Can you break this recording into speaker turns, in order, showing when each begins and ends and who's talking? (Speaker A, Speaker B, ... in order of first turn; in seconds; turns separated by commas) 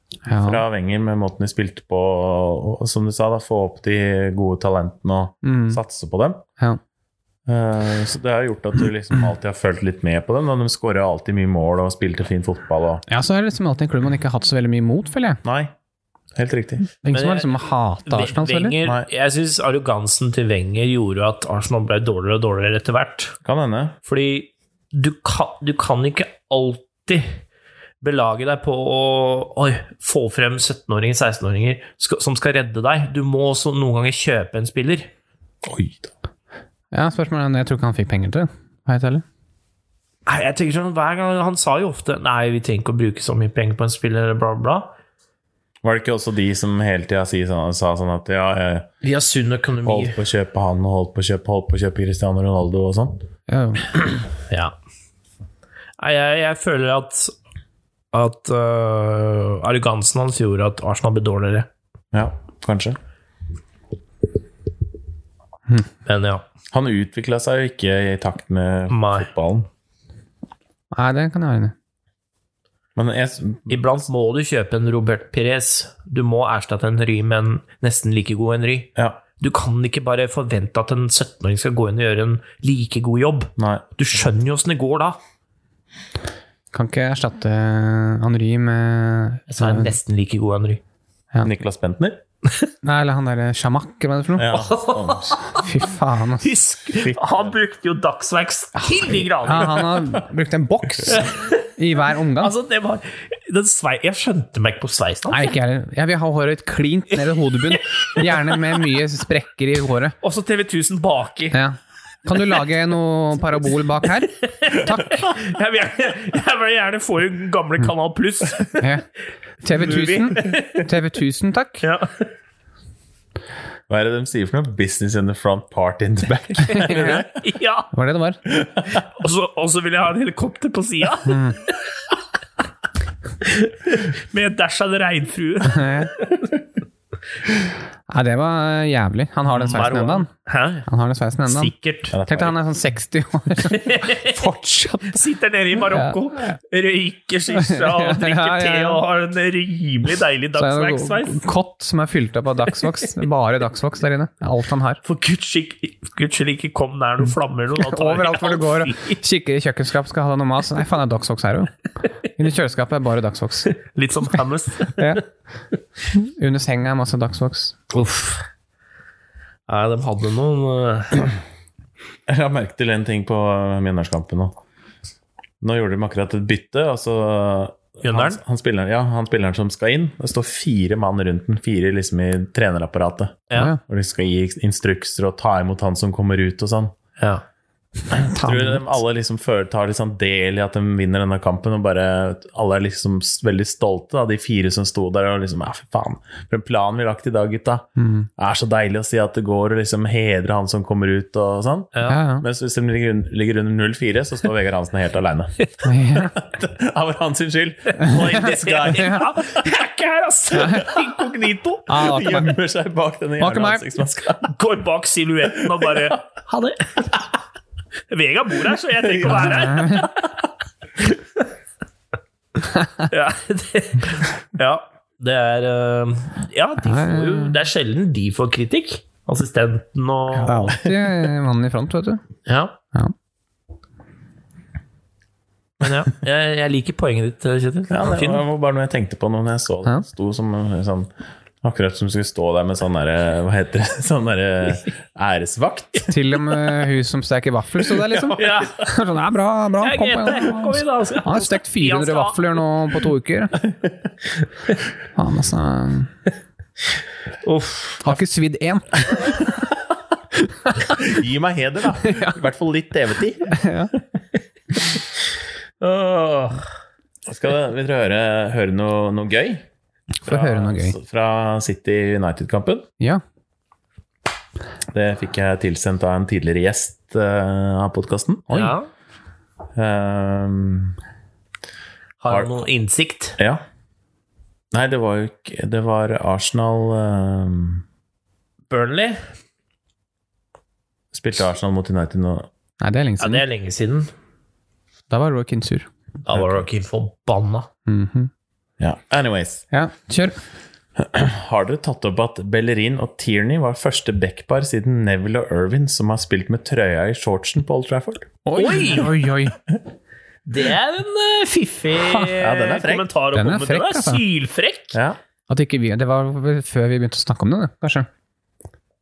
Speaker A: 0.3-0.6, Speaker B: 0.4-6.4, Speaker A: 5.4-5.8, Speaker B: 7.5-13.0, Speaker A: 13.1-15.4, Speaker B: 15.4-15.7, Speaker B: 16.4-16.9, Speaker A: 17.0-18.8, Speaker C: 17.1-17.5, Speaker C: 18.1-23.4, Speaker B: 23.4-24.0, Speaker C: 24.1-27.4, Speaker C: 28.0-35.1, Speaker B: 35.6-36.1, Speaker A: 36.9-39.2, Speaker C: 40.3-44.9, Speaker B: 45.8-48.9, Speaker C: 49.0-50.2, Speaker B: 49.9-53.2, Speaker A: 53.5-53.9, Speaker C: 54.5-54.7, Speaker C: 56.0-57.3, Speaker C: 58.1-61.7, Speaker B: 62.1-63.0, Speaker C: 66.1-66.5, Speaker B: 66.7-69.7, Speaker C: 68.9-69.3, Speaker A: 70.9-71.7, Speaker B: 73.0-73.8, Speaker C: 73.7-85.2, Speaker B: 83.6-83.9, Speaker A: 86.7-90.0, Speaker C: 89.5-90.8, Speaker B: 91.4-92.2, Speaker A: 92.8-94.6, Speaker B: 94.4-95.5, Speaker C: 94.5-95.7, Speaker A: 95.5-96.5, Speaker C: 96.4-100.0, Speaker B: 97.0-97.4, Speaker A: 98.9-102.5, Speaker C: 101.1-101.7, Speaker C: 102.4-105.5, Speaker A: 105.3-110.2, Speaker C: 107.7-108.7, Speaker C: 110.2-111.6, Speaker A: 111.5-115.3, Speaker C: 114.4-119.0, Speaker A: 118.8-119.0, Speaker A: 119.6-121.8, Speaker C: 119.8-120.9, Speaker C: 121.8-122.3, Speaker B: 123.9-127.3, Speaker A: 126.6-127.2, Speaker C: 126.7-127.9, Speaker A: 127.9-128.4, Speaker B: 128.7-129.0, Speaker C: 129.0-131.7, Speaker A: 131.3-131.6, Speaker C: 133.4-136.5, Speaker A: 135.7-136.1, Speaker A: 138.1-140.3, Speaker C: 139.5-140.9, Speaker A: 140.9-141.7, Speaker C: 141.5-142.2, Speaker B: 142.1-142.6, Speaker A: 142.3-145.2, Speaker C: 143.6-144.4, Speaker C: 145.1-151.4, Speaker A: 145.8-146.5, Speaker A: 147.6-149.0, Speaker A: 150.6-155.0, Speaker C: 155.0-159.2, Speaker A: 157.8-161.7, Speaker A: 162.2-163.8, Speaker C: 163.7-165.2, Speaker A: 164.9-165.3, Speaker A: 166.1-167.8, Speaker C: 167.9-168.5, Speaker C: 169.7-171.3, Speaker B: 172.3-174.5, Speaker B: 175.6-186.9, Speaker C: 178.0-178.4, Speaker C: 183.5-183.8, Speaker A: 183.5-183.8, Speaker C: 187.2-187.4, Speaker A: 188.1-189.0, Speaker B: 188.1-205.6, Speaker A: 198.0-198.3, Speaker C: 201.9-202.2, Speaker A: 202.1-202.4, Speaker A: 205.8-206.4, Speaker B: 206.1-209.2, Speaker C: 208.0-212.0, Speaker A: 208.0-209.2, Speaker A: 210.5-210.9, Speaker A: 211.9-212.6, Speaker B: 211.9-214.5, Speaker A: 213.4-213.9, Speaker C: 214.5-217.3, Speaker B: 215.5-216.2, Speaker C: 218.1-220.2, Speaker B: 219.0-220.1, Speaker A: 219.3-220.1, Speaker A: 222.7-223.1, Speaker C: 223.1-230.7, Speaker A: 226.8-227.6, Speaker B: 230.4-231.3, Speaker A: 230.4-232.2, Speaker C: 232.5-232.8, Speaker C: 235.8-238.4, Speaker B: 237.9-241.1, Speaker B: 241.6-246.1, Speaker A: 246.1-253.6, Speaker C: 248.3-248.9, Speaker C: 249.8-252.6, Speaker A: 255.2-256.1, Speaker C: 257.4-258.1, Speaker A: 258.0-259.5, Speaker A: 260.6-260.9, Speaker B: 261.0-263.6, Speaker A: 262.0-262.4, Speaker A: 263.5-263.9, Speaker C: 265.8-266.6, Speaker B: 267.3-269.6, Speaker A: 270.2-271.0, Speaker B: 270.3-272.9, Speaker B: 274.9-278.8, Speaker C: 278.5-278.9, Speaker B: 279.8-281.0, Speaker C: 282.2-283.4, Speaker B: 282.3-282.6, Speaker B: 284.7-287.9, Speaker C: 288.7-289.3, Speaker B: 291.1-292.5, Speaker A: 292.8-293.4, Speaker C: 293.2-294.1, Speaker A: 295.1-295.9, Speaker C: 296.2-297.7, Speaker B: 296.3-296.6, Speaker A: 297.9-298.3, Speaker B: 298.8-299.6, Speaker A: 299.7-300.4, Speaker B: 301.0-308.3, Speaker A: 308.5-309.6, Speaker C: 308.5-309.2, Speaker C: 310.5-315.0, Speaker A: 312.0-312.3, Speaker B: 312.3-313.1, Speaker A: 313.3-314.2, Speaker B: 314.9-315.2, Speaker A: 315.5-318.1